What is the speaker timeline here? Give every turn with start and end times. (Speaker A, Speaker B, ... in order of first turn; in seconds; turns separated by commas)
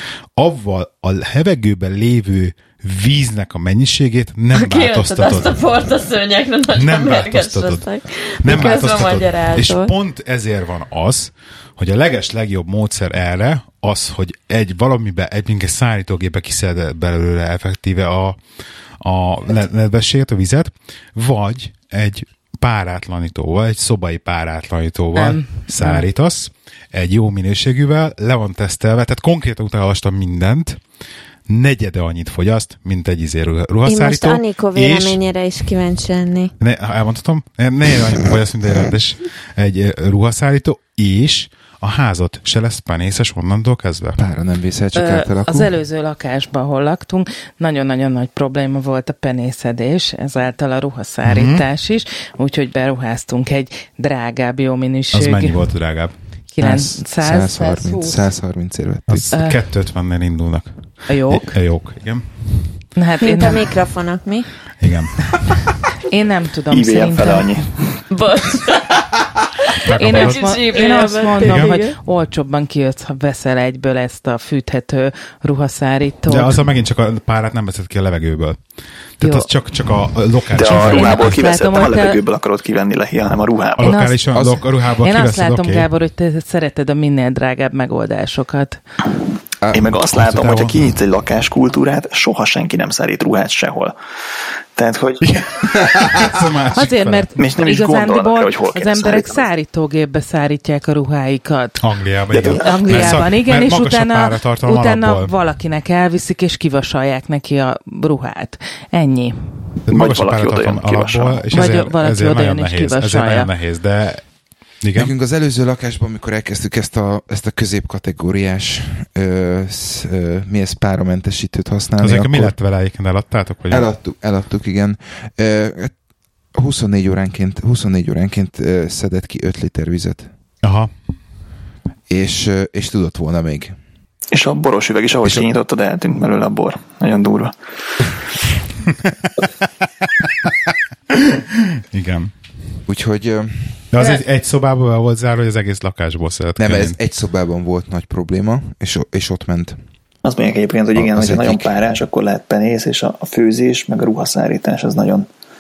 Speaker A: 0.4-5.5, Speaker B: 4.5-9.9, Speaker A: 6.8-7.8, Speaker A: 8.4-18.4, Speaker A: 19.0-30.8, Speaker C: 25.1-26.1, Speaker A: 31.5-35.2, Speaker B: 33.9-36.5, Speaker A: 36.6-44.2, Speaker D: 44.2-45.7, Speaker C: 45.0-55.6, Speaker A: 51.2-51.6, Speaker A: 55.1-56.1, Speaker C: 56.5-58.2, Speaker D: 56.6-59.4, Speaker A: 59.1-62.8, Speaker C: 59.3-59.6, Speaker C: 61.1-61.6, Speaker C: 63.0-63.7, Speaker B: 63.2-64.5, Speaker A: 64.8-65.7, Speaker C: 66.0-67.6, Speaker E: 66.7-68.0, Speaker B: 68.1-69.1, Speaker A: 69.8-70.4, Speaker C: 69.9-76.6, Speaker B: 70.0-72.0, Speaker A: 71.4-71.8, Speaker A: 76.3-78.6, Speaker A: 79.2-81.4, Speaker C: 79.2-79.5, Speaker E: 80.6-84.0, Speaker C: 80.7-82.2, Speaker A: 83.8-85.9, Speaker C: 83.8-84.3, Speaker D: 84.3-84.6, Speaker C: 85.0-88.8, Speaker D: 89.6-89.9, Speaker E: 89.7-94.0, Speaker A: 90.0-91.0, Speaker E: 94.8-95.2, Speaker A: 95.2-97.3, Speaker C: 96.7-101.8, Speaker E: 97.4-99.5, Speaker A: 101.8-105.3, Speaker E: 102.3-103.3, Speaker C: 102.4-109.3, Speaker A: 109.8-114.2, Speaker E: 109.9-111.5, Speaker C: 111.5-113.5, Speaker A: 114.8-115.1, Speaker D: 115.0-122.5, Speaker A: 122.0-123.9, Speaker D: 123.7-126.0, Speaker D: 126.5-130.3, Speaker A: 130.6-130.9, Speaker D: 132.1-133.8, Speaker E: 134.3-137.5, Speaker D: 135.2-135.5, Speaker A: 140.2-142.3, Speaker D: 142.9-143.8, Speaker A: 143.9-147.0, Speaker D: 146.6-149.8, Speaker E: 150.2-155.3, Speaker D: 150.9-151.8